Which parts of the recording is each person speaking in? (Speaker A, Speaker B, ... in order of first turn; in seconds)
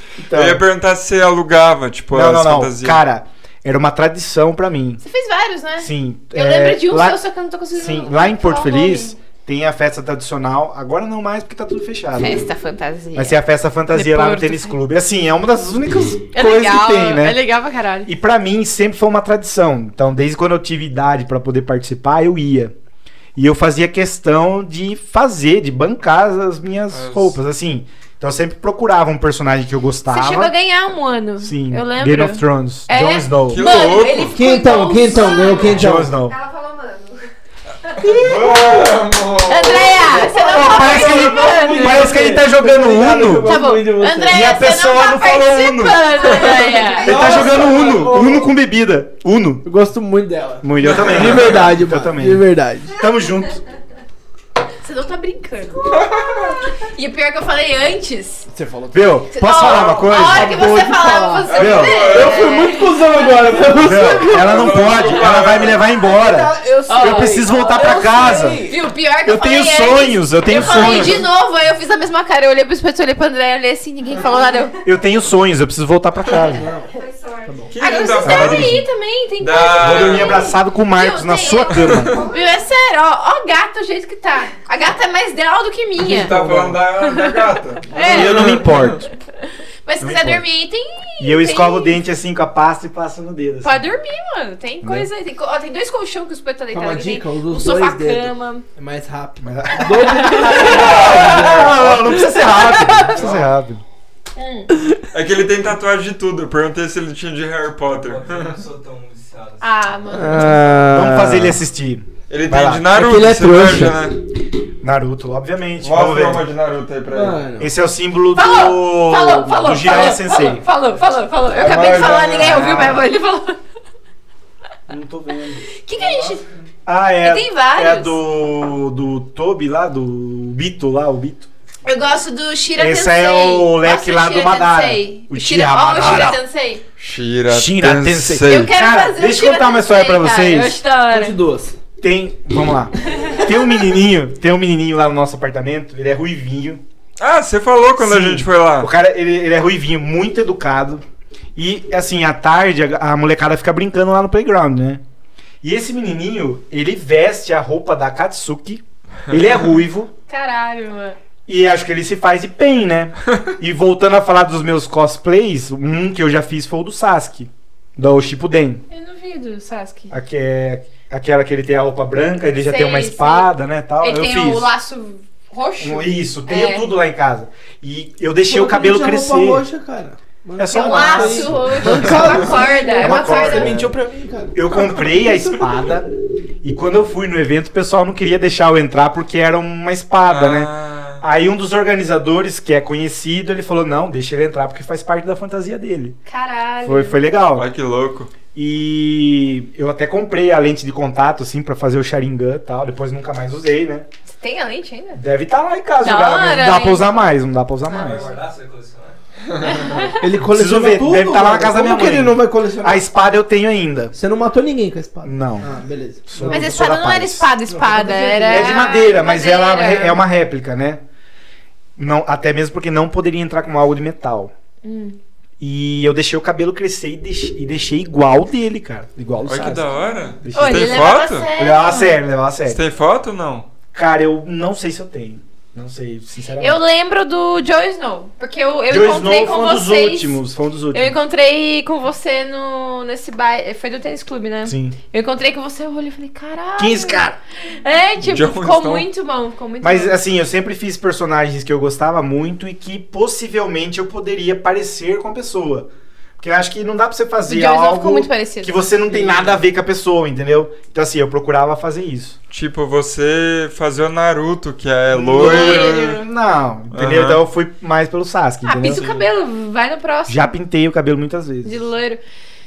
Speaker A: 0.2-0.6, 2.1-5.0, 5.8-7.2, 7.7-12.4, 13.2-17.4, 18.1-22.7, 23.4-30.5, 31.4-33.6, 35.6-36.4, 40.3-43.6, 44.3-46.5, 47.0-49.7, 50.6-53.6, 58.9-60.7, 61.5-62.1, 63.8-68.7, 69.2-71.2, 74.8-76.7, 78.2-78.8, 79.8-82.3, 88.0-89.1, 90.0-90.4, 91.2-93.8, 94.8-95.1, 99.4-103.8, 110.9-112.9, 114.8-116.5, 117.6-120.6, 121.5-123.0, 124.9-125.7, 126.9-131.5, 132.8-136.4, 137.5-140.8, 142.0-146.8, 148.0-151.0, 151.6-155.0, 155.6-160.1, 161.5-168.8, 170.1-174.7, 175.8-179.7, 180.6-183.9, 184.5-186.1, 186.6-196.2, 196.8-197.7, 198.5-204.1, 205.1-208.3, 210.4-214.2, 215.2-217.5, 218.5-221.0, 222.0-224.5, 225.6-232.8, 233.9-236.8, 238.9-241.2, 244.7-245.0, 246.8-247.4, 249.8-255.9, 256.4-262.4, 265.1-269.0, 270.3-271.8
Speaker B: 0.3-3.0, 26.9-27.4, 33.5-34.4, 38.2-40.1, 50.8-51.6, 55.9-56.6, 59.6-60.1, 61.5-62.7, 64.2-65.8, 77.7-78.8, 79.4-80.5, 81.8-82.1, 86.0-88.9, 105.1-108.6, 112.3-114.2, 115.8-117.4, 122.2-123.0, 137.0-138.7, 147.2-148.9, 190.3-191.2, 197.5-198.3, 229.5-231.5, 232.7-233.7, 248.2-249.1, 262.5-266.2, 266.9-267.4, 268.9-269.2
Speaker C: 5.0-9.2, 12.2-13.4, 13.9-14.8, 16.3-18.1, 30.1-35.8, 38.1-38.6, 39.5-42.1, 43.4-47.4, 54.8-58.5, 59.3-64.1, 66.9-74.8, 77.8-86.4, 87.0-88.9, 89.8-92.0, 93.6-98.7, 100.0-101.1, 102.5-103.1, 104.4-104.7, 109.6-110.6, 118.3-123.6, 125.8-126.5, 127.2-128.2, 131.8-136.8, 138.5-141.3, 143.2-143.4, 160.3-161.2, 168.9-170.2, 172.6-176.9, 180.7-183.8, 196.3-197.2, 204.3-205.2, 206.0-207.3, 207.9-208.3, 209.6-210.2, 216.5-220.2, 224.8-225.2, 230.5-232.2, 236.6-240.4, 240.9-250.2, 257.5-259.6, 265.4-266.1, 268.6-270.5, 271.6-272.2
Speaker D: 34.3-36.1, 38.0-39.0, 40.1-44.5, 46.6-48.5, 49.6-53.0, 58.5-59.2, 60.1-68.8, 76.5-77.7, 86.1-86.8, 96.7-102.5, 110.1-111.6, 112.9-114.1, 117.1-117.7, 141.1-141.8, 178.5-185.8, 210.2-213.1, 214.1-216.8, 217.7-218.9
Speaker E: 35.1-37.3, 46.3-47.4, 76.9-77.7, 81.9-82.7
Speaker F: 103.1-103.5, 107.9-110.4, 207.9-210.2